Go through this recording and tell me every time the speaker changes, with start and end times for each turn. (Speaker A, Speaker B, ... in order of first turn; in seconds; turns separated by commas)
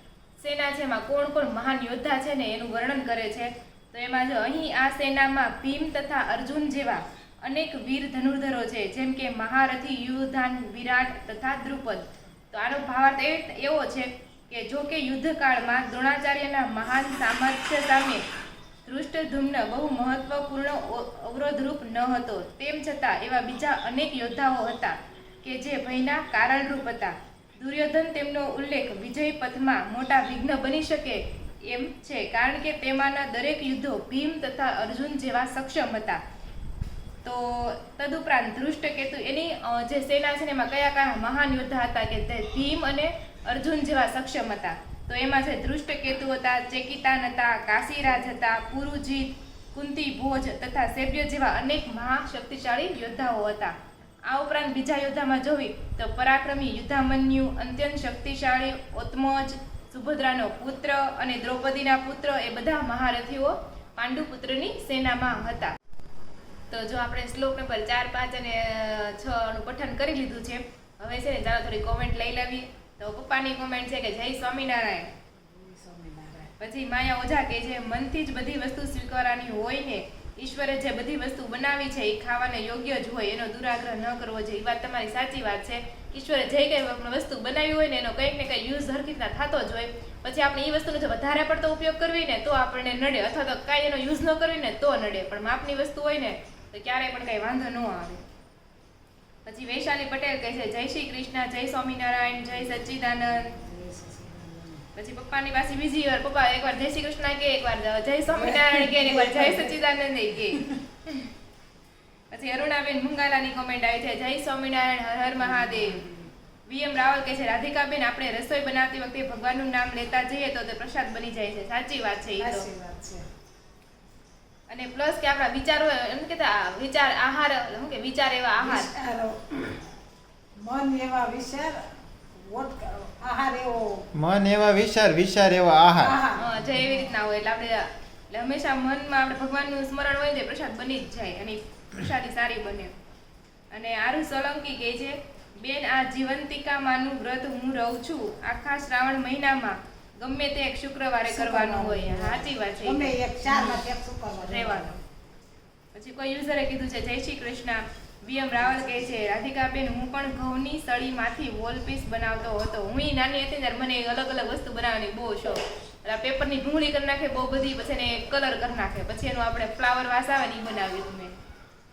Speaker A: 0.4-18.2, Speaker A: 18.8-36.2, Speaker A: 37.2-53.8, Speaker A: 54.3-65.8, Speaker A: 66.7-75.1, Speaker B: 75.4-76.5, Speaker A: 76.6-98.2, Speaker A: 99.5-103.5, Speaker B: 103.4-104.8, Speaker A: 104.9-111.3, Speaker B: 108.3-109.8, Speaker A: 112.3-116.0, Speaker B: 115.4-116.3, Speaker A: 116.7-122.7, Speaker B: 122.4-123.3, Speaker A: 124.7-128.9, Speaker B: 128.6-129.8, Speaker B: 130.6-131.8, Speaker B: 132.4-134.1, Speaker C: 134.2-136.2, Speaker B: 136.0-137.1, Speaker A: 136.4-142.9, Speaker A: 143.7-153.8, Speaker B: 151.3-155.0, Speaker A: 154.4-154.9, Speaker A: 155.9-171.4